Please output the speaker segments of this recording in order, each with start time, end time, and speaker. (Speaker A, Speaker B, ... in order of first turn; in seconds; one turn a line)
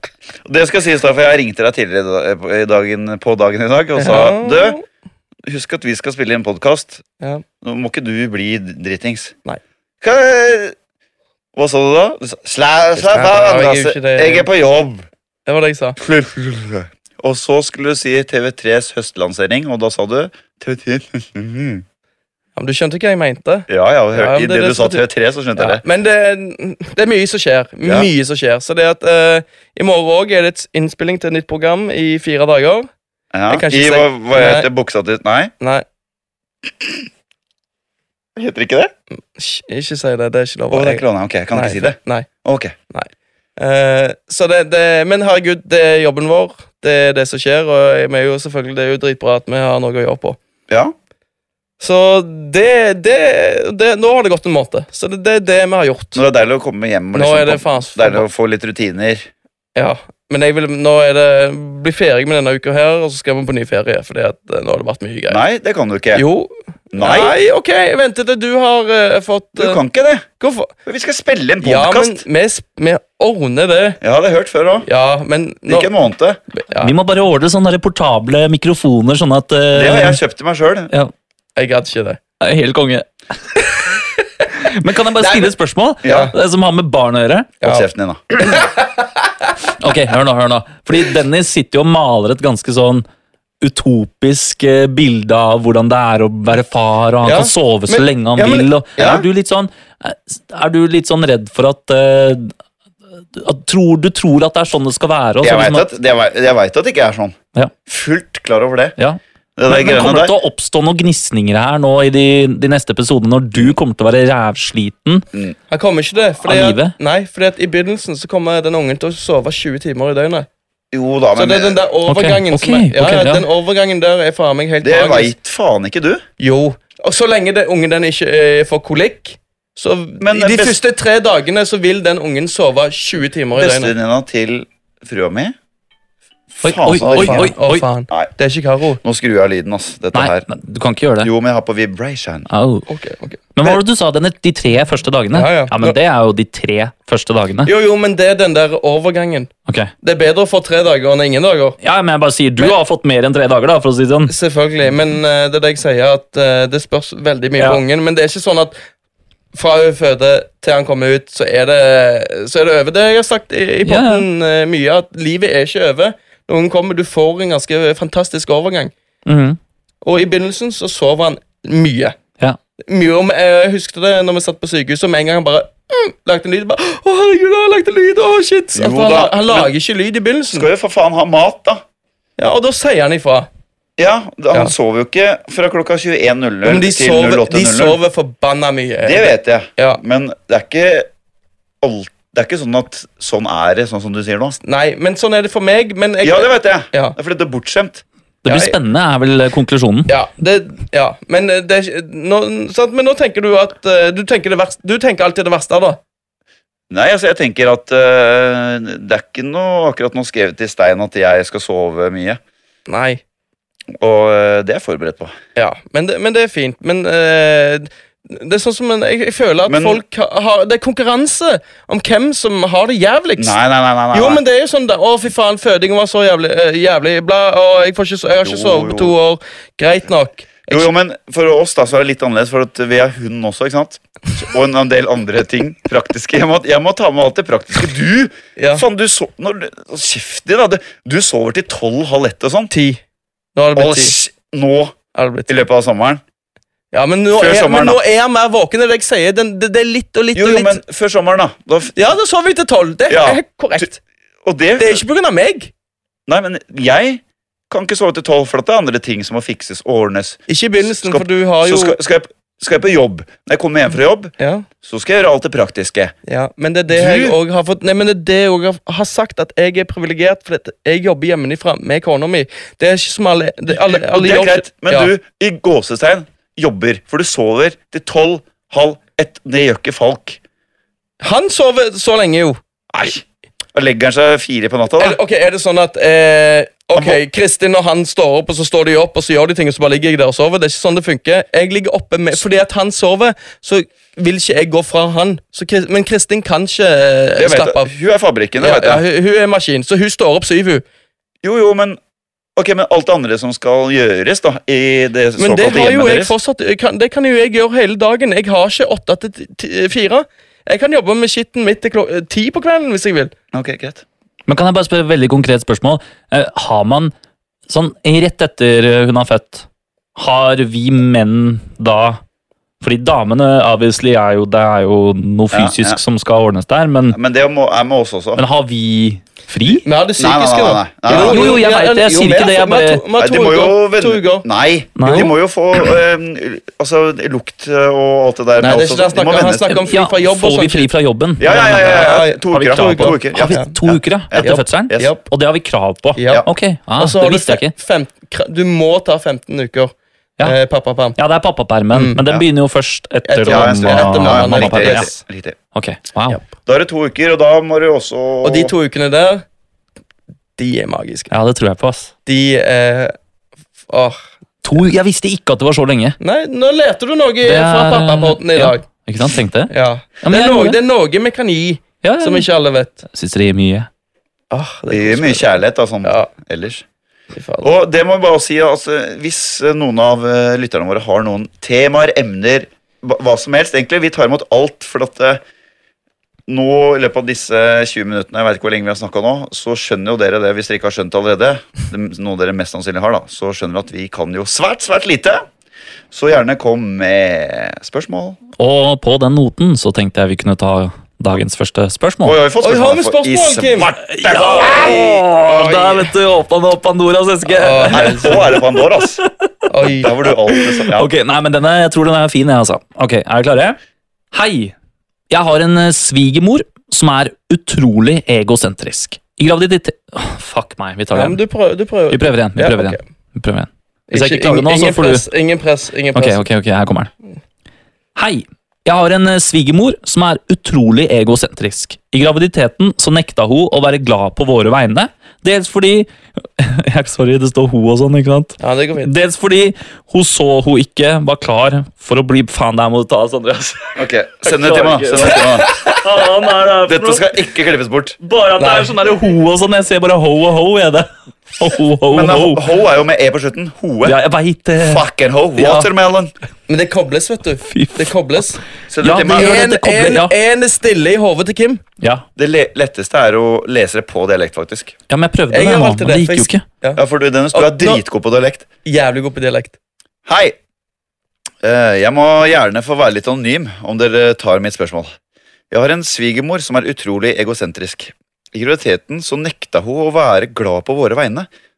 Speaker A: 0.5-4.8
Speaker B: 4.0-4.8
Speaker A: 5.5-7.0
Speaker A: 7.6-9.3
Speaker A: 10.0-10.8
Speaker A: 11.6-15.0
Speaker B: 13.0-14.5
Speaker B: 15.5-16.0
Speaker A: 16.0-21.9
Speaker B: 22.6-25.0
Speaker A: 23.7-25.8
Speaker B: 25.6-32.9
Speaker A: 27.8-28.1
Speaker A: 33.3-35.5
Speaker B: 33.5-34.7
Speaker B: 35.6-35.9
Speaker A: 36.7-37.1
Speaker A: 38.4-38.9
Speaker B: 39.3-42.3
Speaker A: 40.7-42.7
Speaker B: 42.9-50.4
Speaker A: 50.7-50.9
Speaker B: 51.8-56.2
Speaker A: 56.1-59.3
Speaker B: 57.1-58.3
Speaker B: 59.8-65.4
Speaker A: 65.3-66.2
Speaker B: 66.2-69.8
Speaker A: 66.9-67.3
Speaker A: 69.6-70.3
Speaker B: 70.4-70.7
Speaker A: 70.9-72.2
Speaker B: 71.6-74.0
Speaker A: 74.0-74.9
Speaker B: 74.9-75.9
Speaker A: 75.7-76.4
Speaker B: 76.5-76.9
Speaker C: 76.8-80.2
Speaker A: 79.7-80.9
Speaker B: 81.6-82.2
Speaker C: 82.4-83.8
Speaker C: 84.5-87.5
Speaker B: 85.2-85.5
Speaker A: 86.0-86.3
Speaker B: 86.0-86.3
Speaker A: 87.6-88.2
Speaker B: 88.4-89.1
Speaker C: 89.8-93.0
Speaker C: 93.6-102.5
Speaker B: 97.2-98.7
Speaker A: 99.0-99.3
Speaker C: 103.3-105.9
Speaker A: 105.4-109.0
Speaker C: 109.0-115.2
Speaker A: 109.6-110.3
Speaker B: 115.7-120.5
Speaker C: 116.4-117.0
Speaker A: 120.9-121.8
Speaker B: 121.3-125.3
Speaker C: 122.1-123.5
Speaker A: 124.8-126.2
Speaker B: 126.4-133.9
Speaker A: 130.2-130.8
Speaker A: 133.6-135.5
Speaker A: 136.5-137.5
Speaker C: 136.6-137.8
Speaker B: 137.0-139.0
Speaker A: 139.0-140.5
Speaker C: 140.2-141.3
Speaker A: 141.2-142.5
Speaker C: 142.5-142.9
Speaker B: 142.9-143.8
Speaker C: 143.6-147.7
Speaker B: 145.3-146.0
Speaker B: 147.7-149.5
Speaker B: 150.0-151.8
Speaker C: 151.8-154.3
Speaker B: 154.3-158.8
Speaker B: 159.5-168.9
Speaker C: 163.8-164.2
Speaker C: 169.3-169.6
Speaker B: 170.0-172.2
Speaker B: 172.9-180.7
Speaker A: 178.8-179.7
Speaker A: 180.5-181.8
Speaker B: 182.4-183.5
Speaker A: 184.0-188.0
Speaker B: 186.7-190.0
Speaker A: 189.0-191.1
Speaker A: 191.8-194.6
Speaker B: 194.6-197.2
Speaker A: 196.2-198.0
Speaker C: 198.4-200.1
Speaker B: 198.5-198.7
Speaker B: 200.1-206.0
Speaker A: 206.9-212.4
Speaker B: 212.9-213.2
Speaker A: 214.0-215.3
Speaker B: 215.6-223.6
Speaker A: 219.7-220.0
Speaker A: 223.4-224.4
Speaker B: 224.1-230.9
Speaker A: 228.4-229.2
Speaker A: 230.7-242.7
Speaker B: 238.6-238.8
Speaker B: 242.7-243.0
Speaker B: 243.6-244.2
Speaker A: 243.8-245.0
Speaker B: 245.1-245.6
Speaker A: 245.5-246.2
Speaker B: 246.9-250.8
Speaker A: 247.4-248.0
Speaker A: 250.3-251.9
Speaker B: 251.9-254.0
Speaker A: 253.1-253.9
Speaker A: 254.4-255.0
Speaker B: 254.8-255.7
Speaker A: 256.3-266.1
Speaker B: 260.5-262.0
Speaker B: 264.4-264.7
Speaker B: 266.3-275.1
Speaker A: 266.9-267.4
Speaker A: 273.7-280.4
Speaker B: 281.2-282.6
Speaker A: 282.9-285.2
Speaker B: 285.0-297.9
Speaker A: 286.9-287.2
Speaker A: 297.4-299.0
Speaker B: 298.6-300.8
Speaker A: 301.4-302.0
Speaker A: 302.6-306.3
Speaker B: 305.4-313.3
Speaker A: 313.5-314.0
Speaker C: 314.5-317.1
Speaker C: 317.7-322.2
Speaker C: 322.8-327.2
Speaker A: 325.5-326.0
Speaker A: 327.1-328.4
Speaker C: 328.4-329.9
Speaker B: 329.9-334.4
Speaker A: 330.2-331.6
Speaker C: 331.1-333.0
Speaker A: 333.2-339.8
Speaker C: 335.0-335.3
Speaker B: 338.6-340.9
Speaker C: 339.7-347.7
Speaker A: 341.4-345.1
Speaker B: 341.5-343.7
Speaker B: 344.4-345.2
Speaker B: 346.2-346.5
Speaker B: 347.0-351.2
Speaker C: 351.2-355.1
Speaker B: 351.9-352.2
Speaker B: 353.2-355.2
Speaker A: 353.5-355.6
Speaker C: 355.7-356.4
Speaker A: 356.7-358.7
Speaker B: 358.4-359.4
Speaker B: 360.6-361.3
Speaker C: 361.3-362.1
Speaker B: 362.3-363.1
Speaker B: 363.9-364.2
Speaker C: 364.6-366.2
Speaker B: 366.2-368.8
Speaker C: 367.4-369.7
Speaker B: 369.7-373.0
Speaker C: 370.2-370.8
Speaker C: 372.0-372.5
Speaker C: 373.1-373.9
Speaker B: 374.5-376.3
Speaker A: 374.9-376.9
Speaker B: 377.3-377.7
Speaker A: 377.6-385.4
Speaker A: 386.5-395.4
Speaker A: 396.1-398.4
Speaker C: 398.6-402.4
Speaker A: 402.2-405.2
Speaker B: 402.6-403.9
Speaker C: 404.0-409.7
Speaker B: 404.6-406.1
Speaker B: 407.5-408.4
Speaker A: 407.9-409.2
Speaker B: 409.7-410.1
Speaker A: 409.9-411.1
Speaker C: 410.2-413.8
Speaker C: 414.3-414.7
Speaker C: 415.3-421.4
Speaker B: 421.1-423.0
Speaker C: 422.1-425.2
Speaker B: 424.1-426.4
Speaker C: 426.1-427.1
Speaker C: 428.2-447.3
Speaker B: 438.6-439.1
Speaker A: 444.0-445.8
Speaker B: 445.6-445.9
Speaker A: 446.9-448.2
Speaker C: 448.2-452.6
Speaker B: 448.6-448.9
Speaker A: 452.1-454.2
Speaker C: 454.1-455.1
Speaker A: 454.8-456.3
Speaker C: 455.6-455.9
Speaker B: 456.7-458.6
Speaker C: 457.7-458.4
Speaker A: 458.9-459.6
Speaker C: 459.0-460.3
Speaker B: 459.3-461.8
Speaker A: 462.4-464.9
Speaker C: 465.1-466.6
Speaker B: 465.5-467.0
Speaker A: 467.0-468.7
Speaker B: 467.5-468.0
Speaker B: 468.9-469.8
Speaker A: 470.3-470.6
Speaker A: 471.6-475.1
Speaker A: 475.7-481.5